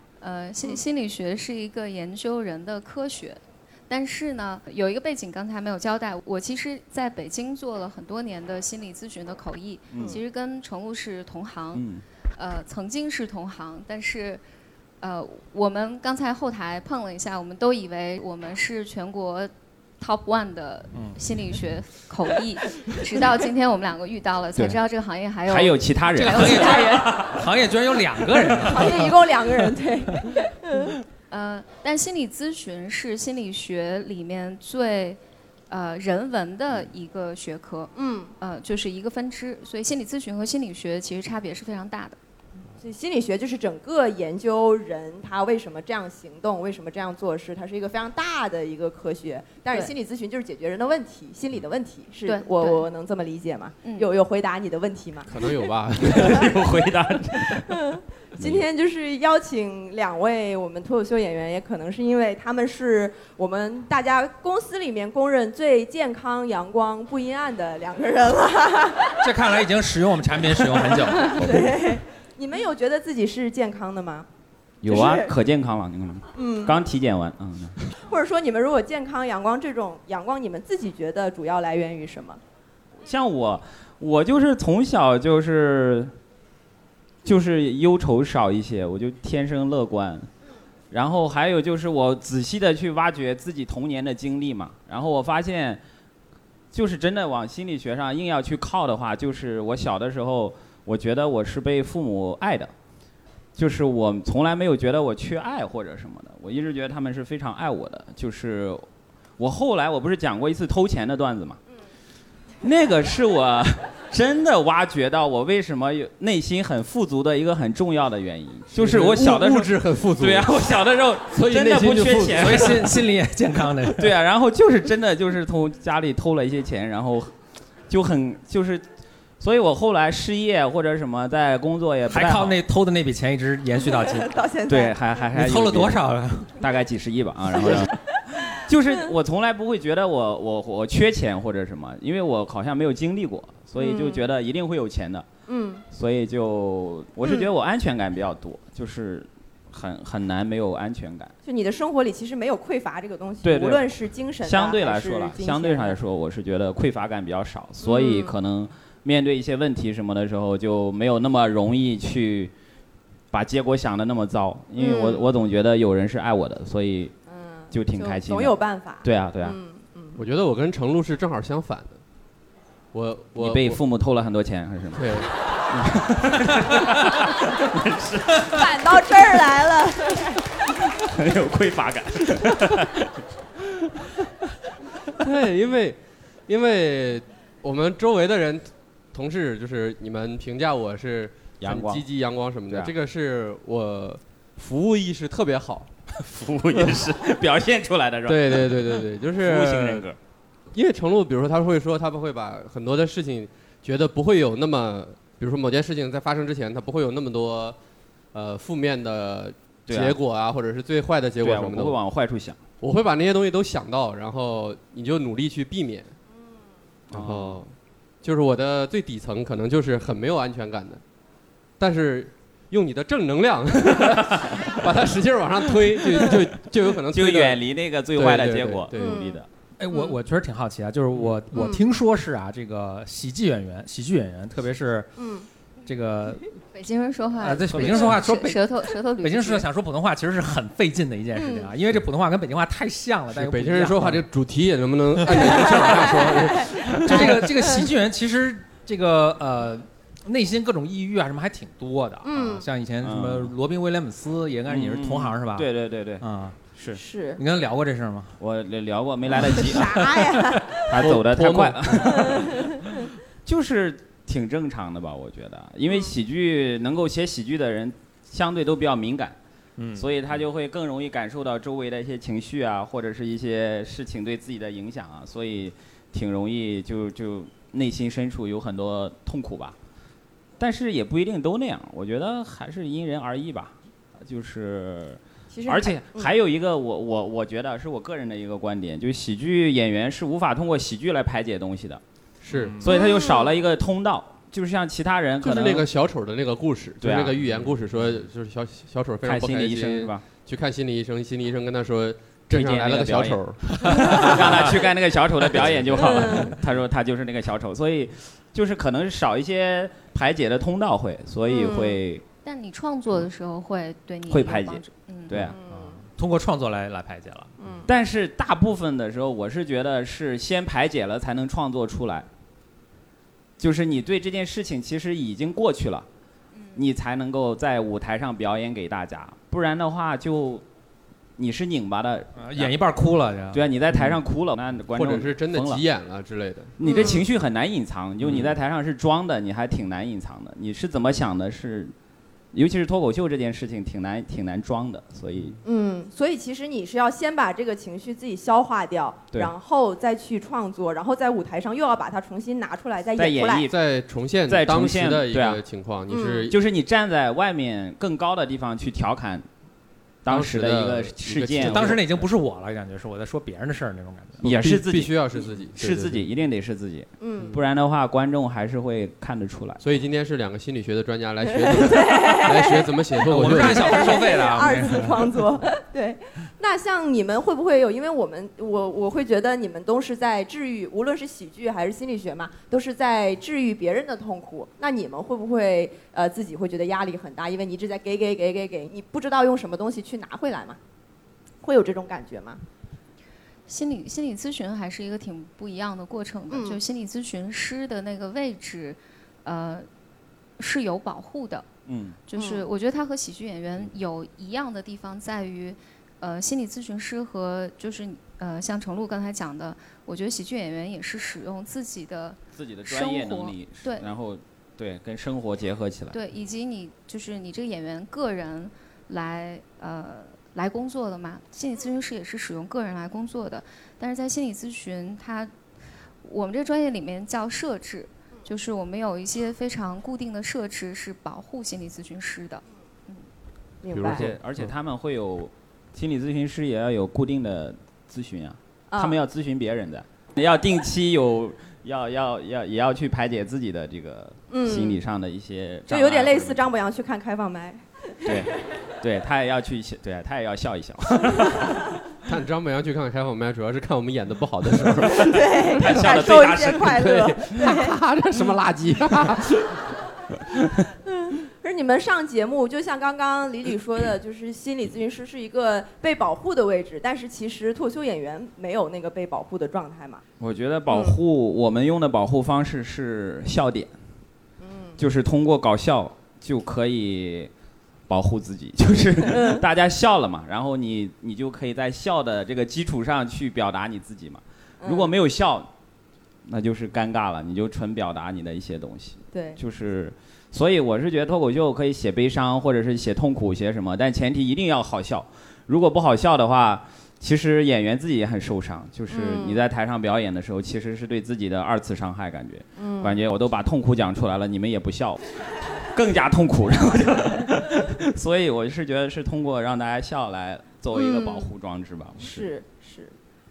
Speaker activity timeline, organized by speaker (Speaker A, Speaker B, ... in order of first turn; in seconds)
Speaker A: 0.2-14.4, 15.0-27.2, 31.3-35.2, 35.7-42.2, 52.2-52.9, 236.7-239.7, 312.4-315.4, 393.7-399.9, 400.6-401.6, 402.3-414.1, 416.1-425.5, 426.2-433.2
Speaker B: 9.9-10.2, 11.7-12.0, 25.5-27.5, 56.0-57.7, 58.4-58.6, 71.4-71.7, 74.8-77.8, 83.0-86.1, 87.2-90.3, 90.9-95.8, 96.7-102.7, 103.5-108.8, 109.4-111.6, 112.6-123.0, 123.9-127.3, 127.9-128.8, 129.4-132.6, 134.7-136.0, 136.6-145.2, 145.9-151.3, 153.4-153.9, 154.4-162.5, 163.3-167.1, 167.7-169.6, 173.4-179.2, 180.9-183.1, 191.6-192.0, 196.2-200.2, 209.9-210.2, 211.4-212.6, 217.1-217.6, 224.0-224.7, 225.9-226.4, 227.1-229.5, 237.7-238.1, 253.0-253.5, 254.7-256.2, 256.7-257.0, 258.4-260.2, 260.7-262.7, 263.4-269.4, 269.9-279.8, 280.6-292.0, 292.8-295.9, 297.0-297.4, 299.2-300.2, 302.5-312.2, 314.3-315.6, 317.9-322.3, 323.6-326.1, 326.7-330.6, 331.4-332.7, 333.5-335.8, 336.8-341.9, 342.5-345.6, 353.2-353.7, 354.5-355.6, 356.5-359.4, 360.2-362.1, 364.4-369.8, 401.9-402.2, 412.5-416.2, 434.0-446.6, 448.2-451.8, 455.6-457.7, 470.4-473.9, 475.0-477.5, 478.1-485.7, 486.4-512.5
Speaker C: 26.1-29.2, 69.2-71.5, 122.3-124.1, 132.1-134.3, 135.3-136.5, 229.8-235.1, 235.8-236.5, 237.4-238.7, 239.2-244.2, 245.2-245.5, 246.9-255.7, 256.2-256.6, 257.4-258.3, 269.8-270.1, 292.5-292.9, 315.7-317.5, 332.4-333.6, 361.6-364.5, 373.2-375.4
Speaker D: 28.6-31.0, 37.9-38.3, 42.8-55.7, 56.2-56.5, 57.5-69.3, 70.9-74.3, 74.9-75.3, 76.3-76.7, 78.0-82.4, 133.9-135.0, 137.6-138.0, 143.8-144.3, 145.5-145.8, 151.4-156.0, 157.8-158.3, 164.8-165.3, 167.3-170.2, 178.4-180.4, 228.9-230.2, 231.5-231.8, 235.2-235.5, 241.3-241.7, 245.5-247.9, 252.2-252.7, 256.9-257.4, 259.5-260.9, 262.0-262.9, 285.5-286.3, 292.8-293.6, 306.0-306.5, 311.4-312.0, 315.3-316.0, 317.6-317.9, 336.8-337.2, 345.6-353.7, 356.1-356.4, 367.2-367.6, 371.5-372.9, 373.5-390.8, 391.6-392.6, 396.5-396.8, 402.4-402.7, 433.8-434.3, 438.9-439.2, 444.5-445.0, 445.9-448.6, 451.4-451.7, 455.0-458.0, 461.1-470.2, 470.9-471.2, 474.6-475.0, 479.2-479.6, 484.8-485.1, 489.3-489.6, 499.1-499.6, 502.8-503.2, 510.9-511.5, 512.2-513.1
Speaker E: 55.3-56.5, 118.7-120.5, 121.3-122.9, 170.2-172.0, 172.9-173.8, 174.9-175.3, 185.1-195.9, 198.2-200.1, 200.7-207.8, 208.3-211.9, 212.8-216.1, 217.1-221.0, 221.8-227.6, 228.2-229.2, 243.3-247.2, 260.9-262.6, 292.4-292.8, 295.4-304.8, 305.5-306.5, 334.9-336.8, 353.7-356.6, 360.3-362.1, 364.4-366.2, 369.8-374.2, 433.9-434.7, 452.2-456.1, 456.8-459.8